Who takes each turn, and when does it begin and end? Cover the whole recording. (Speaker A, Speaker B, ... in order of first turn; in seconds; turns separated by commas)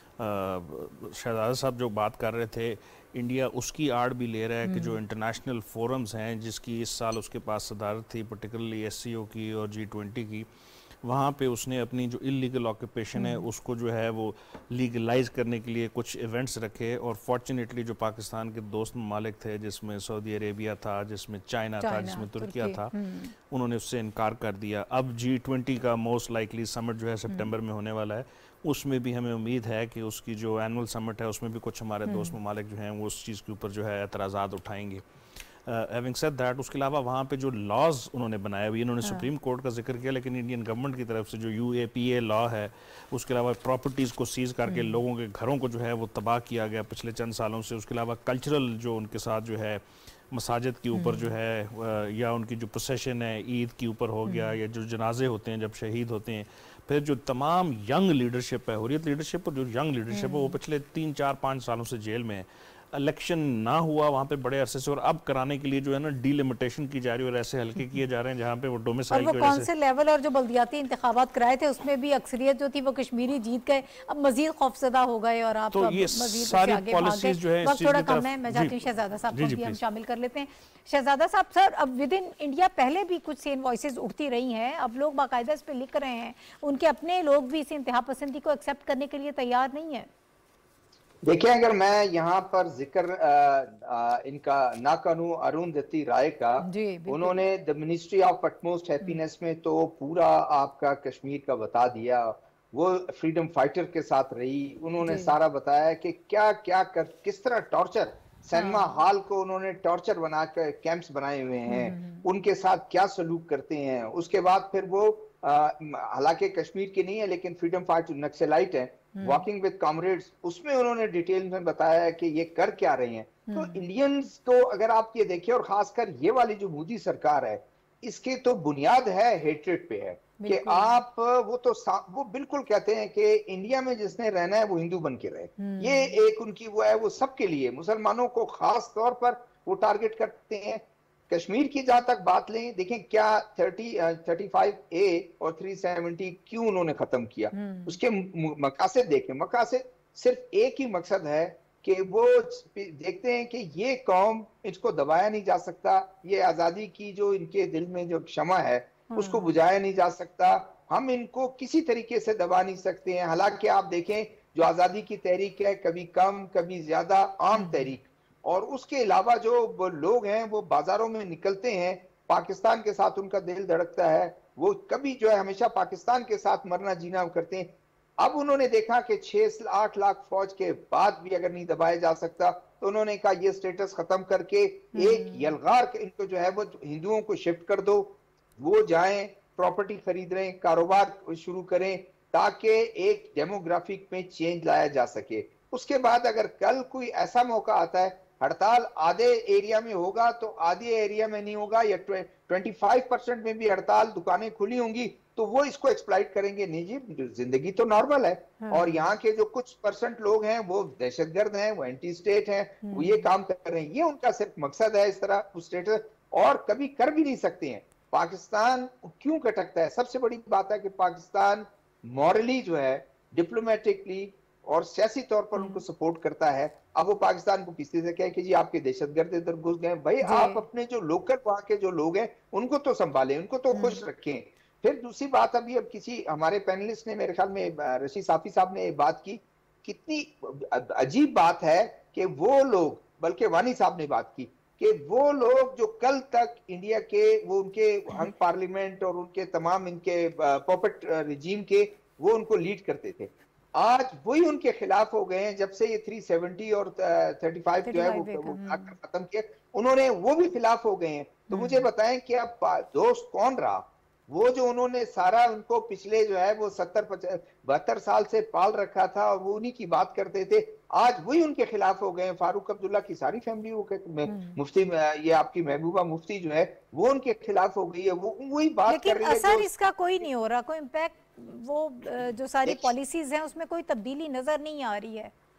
Speaker A: 0.2-10.5, Speaker B: 4.7-5.0, Speaker A: 11.0-23.0, Speaker B: 13.2-13.5, Speaker B: 21.8-23.3, Speaker A: 23.5-35.0, Speaker B: 32.1-32.4, Speaker A: 35.6-69.7, Speaker B: 39.0-39.3, Speaker B: 44.7-45.0, Speaker B: 50.9-51.3, Speaker B: 54.3-54.6, Speaker B: 60.1-60.6, Speaker B: 69.1-90.1, Speaker A: 75.7-78.8, Speaker A: 79.3-79.8, Speaker C: 91.2-279.7, Speaker B: 96.6-97.4, Speaker B: 105.0-105.3, Speaker B: 108.5-108.9, Speaker B: 111.7-112.3, Speaker B: 119.2-119.5, Speaker B: 123.5-123.8, Speaker B: 130.4-130.9, Speaker B: 135.6-136.2, Speaker B: 147.5-148.0, Speaker B: 159.1-159.5, Speaker B: 167.5-167.9, Speaker B: 184.9-185.6, Speaker B: 208.6-209.1, Speaker B: 212.8-213.3, Speaker B: 225.6-225.8, Speaker B: 230.2-230.6, Speaker B: 233.7-234.0, Speaker B: 257.9-258.9, Speaker B: 261.5-261.9, Speaker B: 274.3-274.6, Speaker B: 278.9-285.3, Speaker C: 282.7-282.9